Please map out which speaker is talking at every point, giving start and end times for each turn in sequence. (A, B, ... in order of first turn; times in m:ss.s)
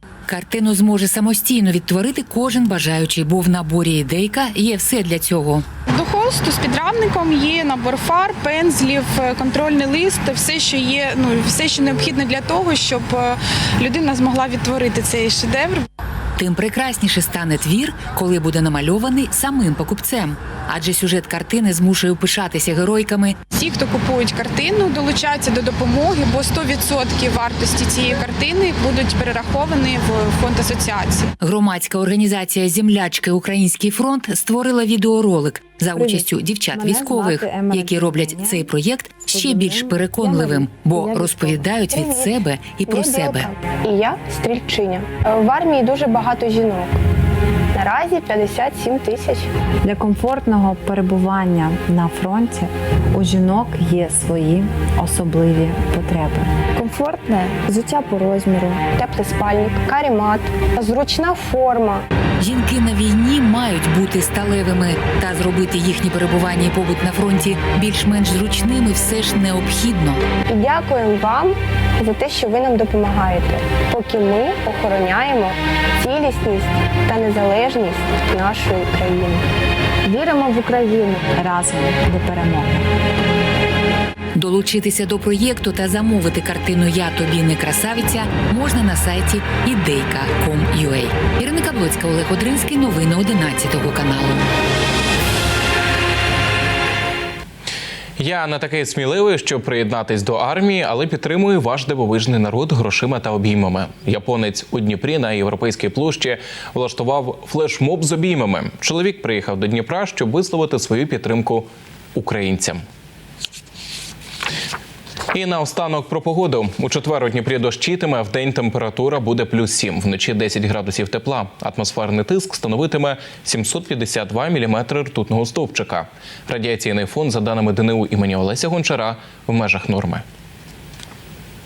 0:00.3-0:05.6 A
0:05.9-0:15.8 B
0:16.4-0:23.4 A
0:23.5-0:31.3 B
0:31.4-0:43.5 A
0:36.0-0:38.6 C
0:39.3-0:41.6 C
0:41.9-0:47.0 D
0:47.7-0:49.5 D
0:49.8-0:57.5 C
0:58.4-0:58.8 C
0:58.9-1:02.0 D
1:02.4-1:10.2 A
1:10.5-1:19.4 D
1:20.1-1:21.3 D
1:21.4-1:22.9 C
1:24.4-1:34.4 A
1:38.2-1:52.8 E
1:55.3-2:10.2 E